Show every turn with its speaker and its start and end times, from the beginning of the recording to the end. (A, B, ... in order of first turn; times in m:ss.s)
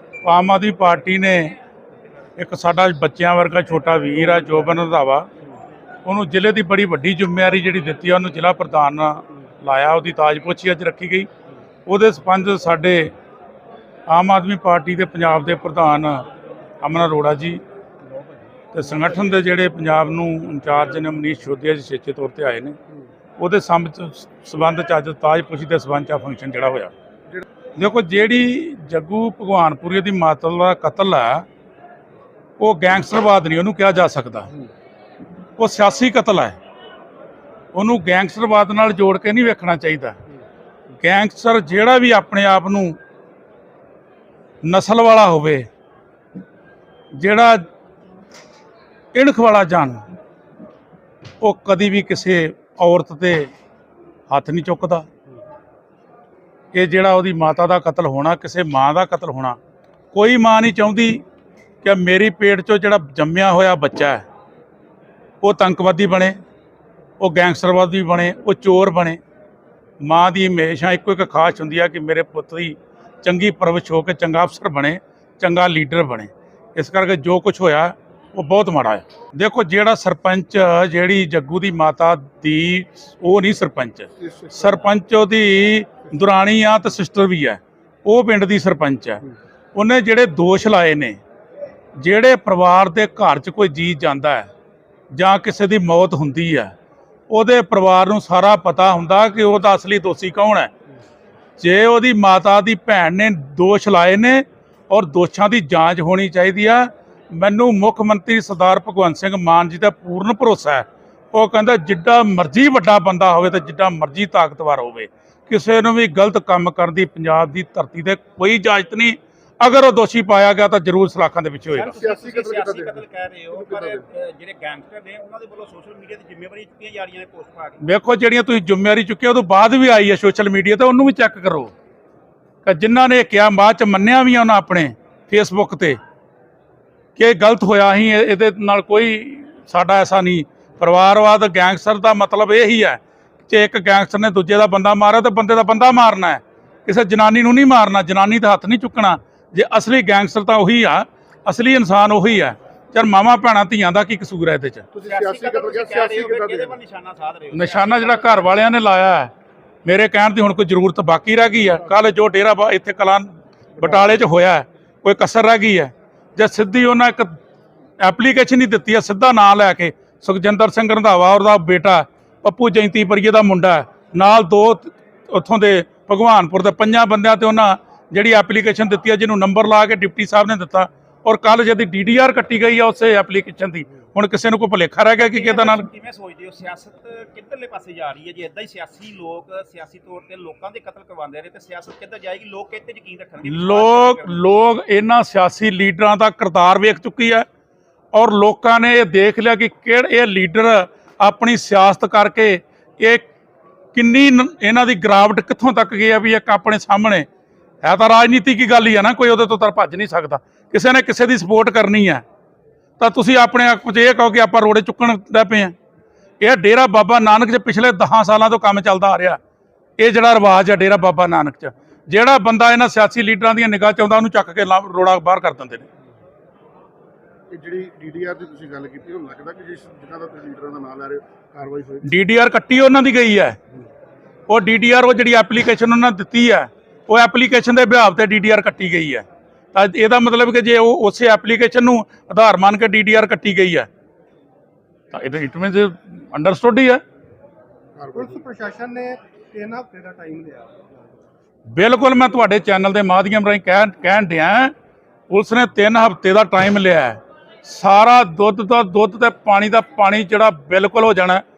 0:00.2-0:01.6 A
0:02.4-0:05.3 A
0:06.0-0:11.3 A
0:11.9-0:13.1 A
0:14.1-0:16.2 A
0:16.8-0:17.6 A
0:18.7-0:22.8 A
0:23.4-0:26.9 A
0:27.8-0:31.5 A
0:32.6-0:34.5 A
0:35.6-0:36.6 A
0:37.7-0:40.2 A
0:41.0-0:43.0 A
0:44.6-0:45.7 A
0:47.1-0:47.6 A
0:49.1-0:50.0 A
0:51.4-0:53.5 A
0:54.3-0:55.1 A
0:56.7-0:59.6 A
1:00.1-1:01.2 A
1:01.8-1:04.2 A
1:05.4-1:06.4 A
1:07.2-1:09.2 A
1:10.0-1:31.2 A
1:24.2-1:24.6 B
1:32.0-1:34.5 A
1:35.1-1:36.7 A
1:37.3-1:40.7 A
1:41.6-2:02.0 A
2:01.7-2:07.8 C
2:01.9-2:04.0 B
2:07.8-2:11.7 A
2:12.6-2:16.0 A
2:17.2-2:34.9 A
2:34.9-2:36.8 B
2:35.0-2:38.7 C
2:37.5-2:39.3 A
2:39.8-2:47.4 A
2:48.0-3:05.9 A
3:05.2-3:14.5 C
3:13.4-3:17.5 A
3:18.1-3:23.3 A
3:23.9-3:27.3 A
3:27.8-3:32.2 A
3:33.0-3:35.8 A
3:36.4-3:39.4 A
3:40.0-3:45.9 A
3:47.5-3:52.1 B
3:52.0-3:53.6 A
3:54.5-4:03.9 A
4:05.1-4:07.0 A
4:08.0-4:08.4 B
4:08.1-4:10.8 D
4:11.7-4:14.7 A
4:15.3-4:21.4 A